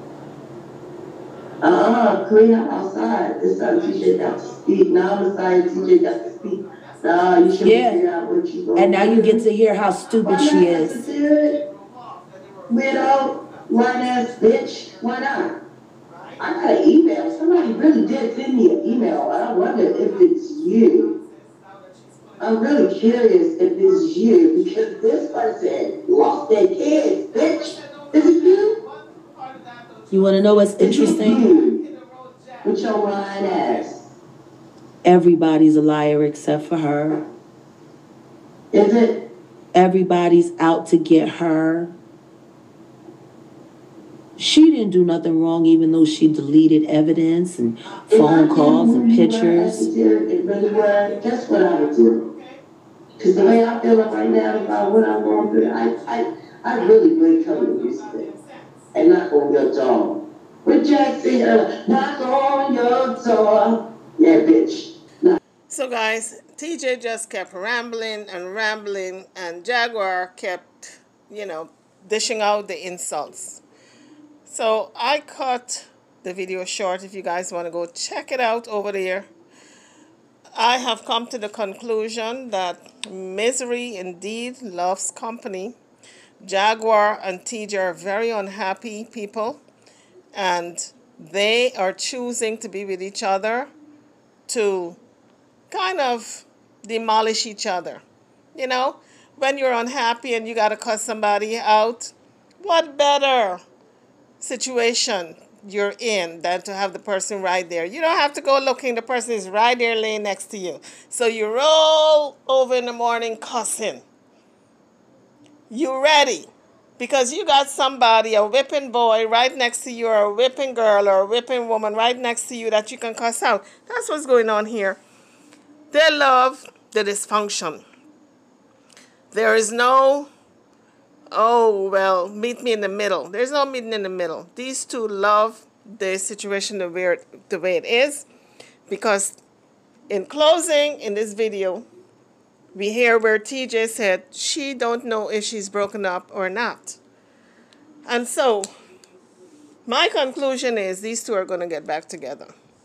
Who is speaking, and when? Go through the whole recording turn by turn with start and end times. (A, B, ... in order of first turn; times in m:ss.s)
0:01.6-0:09.4 A
0:03.6-0:08.0 B
0:07.6-0:08.0 C
0:08.8-0:11.0 C
0:10.0-0:15.1 B
0:10.2-0:11.6 A
0:12.7-0:15.6 A
0:16.1-0:16.4 B
0:16.4-0:21.1 A
0:17.5-0:25.5 B
0:22.4-0:28.8 A
0:27.2-0:33.9 B
0:30.1-0:31.4 C
0:30.8-0:31.8 A
0:32.6-0:33.9 A
0:35.0-0:37.2 C
0:38.7-0:39.2 A
0:39.7-0:42.0 C
0:44.4-0:49.9 C
0:47.9-0:48.9 B
0:48.1-0:52.2 A
0:50.5-0:52.6 B
0:53.2-0:56.2 B
0:53.2-0:58.3 A
0:56.7-0:58.9 B
0:58.9-1:05.4 A
1:05.7-1:13.6 B
1:14.5-1:19.3 B
1:20.6-1:25.8 B
1:26.4-1:29.6 B
1:30.3-1:33.7 B
1:34.5-1:35.0 B
1:35.7-1:38.0 B
1:38.5-1:43.6 B
1:44.4-1:54.0 B
1:55.7-2:05.0 B
2:05.9-2:07.8 B
2:09.3-2:10.3 B
2:11.3-2:18.2 B
2:18.9-2:19.4 B
2:20.1-2:21.9 B
2:22.7-2:27.0 B
2:28.0-2:28.7 B
2:29.8-2:32.5 B